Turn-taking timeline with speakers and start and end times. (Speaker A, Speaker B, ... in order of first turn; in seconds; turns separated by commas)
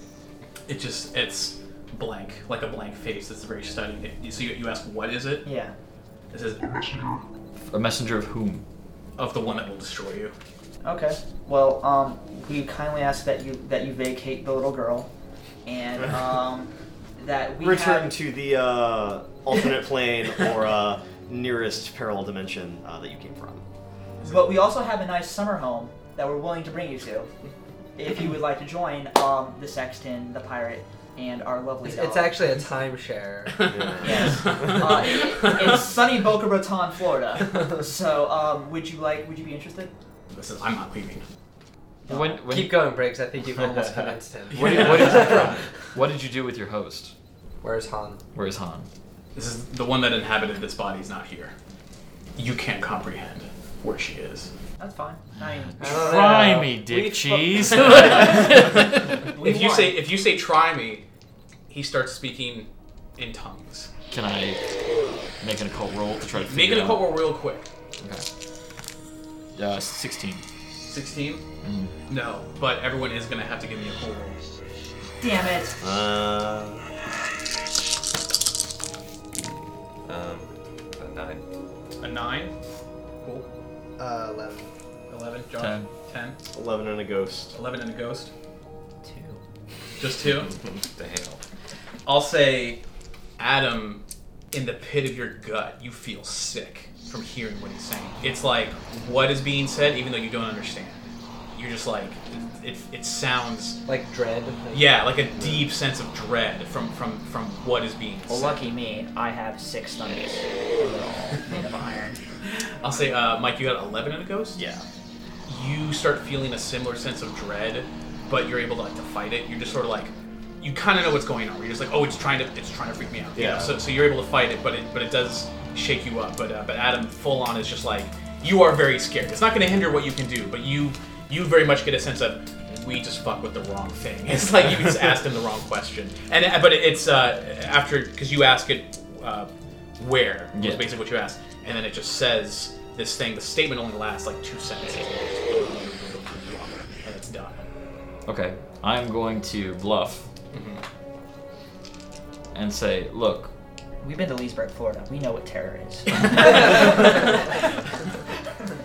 Speaker A: 0.7-5.5, Speaker B: 5.4-5.7, Speaker A: 6.3-7.2, Speaker C: 7.7-8.6, Speaker A: 9.2-10.3, Speaker B: 10.8-15.1, Speaker B: 15.7-18.1, Speaker D: 17.6-23.6, Speaker B: 24.2-27.3, Speaker B: 28.0-32.6, Speaker E: 31.8-33.6, Speaker A: 33.5-35.9, Speaker D: 33.7-34.7, Speaker B: 34.0-39.9, Speaker A: 40.3-41.2, Speaker C: 42.1-42.9, Speaker E: 42.1-45.6, Speaker A: 44.5-45.6, Speaker C: 44.5-47.1, Speaker E: 47.6-48.2, Speaker C: 48.3-48.9, Speaker A: 49.4-51.5, Speaker A: 52.4-54.5, Speaker B: 54.8-56.2, Speaker C: 55.7-59.2, Speaker E: 55.8-58.2, Speaker A: 57.7-61.0, Speaker B: 58.1-58.7, Speaker B: 59.2-60.0, Speaker A: 61.7-63.9, Speaker C: 64.1-64.6, Speaker C: 65.4-67.1, Speaker A: 66.4-67.7, Speaker C: 68.0-68.3, Speaker C: 69.6-70.5, Speaker A: 70.9-71.4, Speaker C: 71.6-71.9, Speaker A: 72.1-74.4, Speaker B: 75.2-75.8, Speaker D: 75.8-76.9, Speaker F: 80.1-81.4, Speaker A: 82.0-82.5, Speaker E: 84.0-84.7, Speaker A: 85.1-86.4, Speaker C: 85.6-85.9, Speaker D: 86.5-87.5, Speaker A: 87.5-88.3, Speaker B: 89.0-89.4, Speaker A: 90.0-90.5, Speaker F: 90.6-91.4, Speaker A: 92.1-92.8, Speaker A: 93.4-103.8, Speaker E: 103.9-105.1, Speaker A: 104.7-108.6, Speaker B: 108.3-112.2, Speaker A: 112.5-114.6, Speaker D: 114.6-114.8, Speaker A: 115.5-147.7, Speaker D: 123.4-123.8, Speaker C: 140.5-140.9, Speaker C: 148.3-150.3, Speaker A: 150.5-150.8, Speaker C: 152.5-153.5, Speaker B: 154.0-157.3